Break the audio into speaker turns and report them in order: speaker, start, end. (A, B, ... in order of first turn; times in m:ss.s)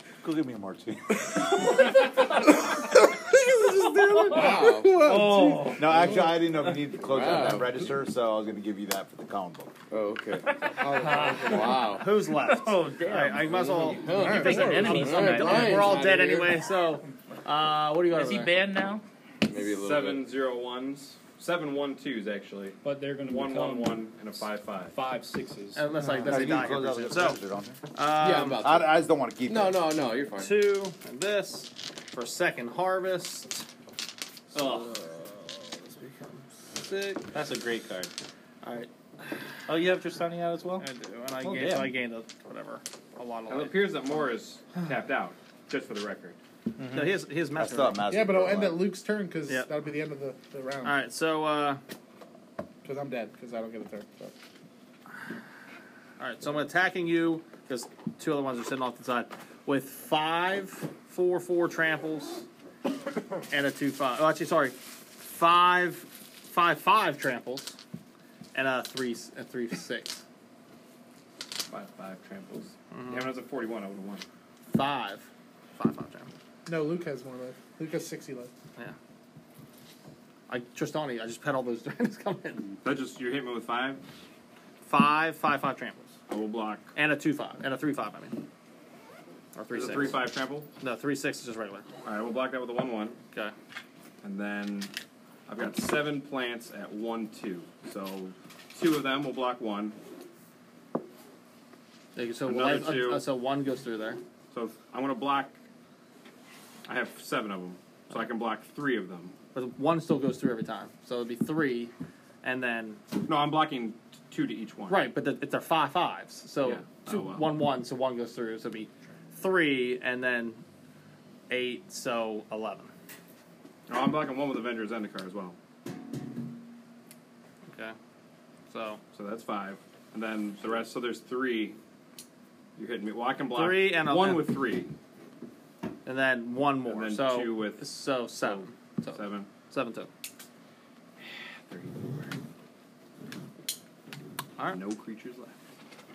0:00.2-0:01.0 A
0:01.2-0:06.4 B
0:01.4-0:02.6 C
0:04.1-0:06.2 C
0:04.3-0:05.2 D
0:05.8-0:09.7 A
0:06.8-0:07.8 D
0:09.9-0:12.1 D
0:10.5-0:15.8 C
0:11.0-0:18.6 E
0:13.7-0:16.6 D
0:14.1-0:16.0 B
0:18.1-0:19.0 C
0:19.4-0:20.3 D
0:19.6-0:24.9 F
0:22.8-0:24.1 G
0:24.9-0:25.9 G
0:25.7-0:28.6 E
0:26.2-0:27.7 A
0:28.2-0:28.9 D
0:28.5-0:29.9 A
0:29.4-0:30.6 D
0:30.3-0:33.6 E
0:34.5-0:34.9 E
0:34.5-0:36.2 D
0:36.7-0:37.3 E
0:37.3-0:38.1 C
0:38.6-0:39.4 E
0:39.7-0:40.8 C
0:40.8-0:44.4 E
0:41.4-0:41.9 C
0:43.5-0:46.4 F
0:46.8-0:47.2 C
0:46.8-0:48.0 E
0:47.6-0:48.9 A
0:48.1-0:51.0 B
0:50.8-0:51.8 E
0:52.8-0:54.3 B
0:56.2-1:02.4 E
1:03.5-1:07.8 E
1:08.5-1:10.2 E
1:11.7-1:14.2 F
1:12.9-1:13.3 E
1:14.7-1:16.3 E
1:16.6-1:18.5 B
1:20.5-1:22.8 E
1:22.8-1:24.0 F
1:24.8-1:26.1 E
1:26.3-1:26.9 F
1:27.0-1:28.4 E
1:29.5-1:30.3 E
1:29.7-1:30.7 F
1:30.8-1:31.9 E
1:32.0-1:33.2 F
1:34.2-1:34.9 F
1:35.5-1:40.0 F
1:42.1-1:44.2 E
1:42.4-1:43.2 F
1:44.5-1:45.5 F
1:46.9-1:49.3 F
1:49.5-1:51.9 E
1:52.4-1:53.0 E
1:53.2-1:55.1 F
1:54.9-2:00.6 E
1:56.6-1:57.5 F
2:01.5-2:02.9 E
2:03.9-2:05.6 F
2:07.7-2:08.0 E
2:08.7-2:09.0 E
2:09.1-2:11.8 F
2:12.8-2:14.9 F
2:13.5-2:14.6 E
2:16.0-2:20.1 E
2:16.8-2:19.5 F
2:21.2-2:22.3 F
2:24.6-2:25.6 F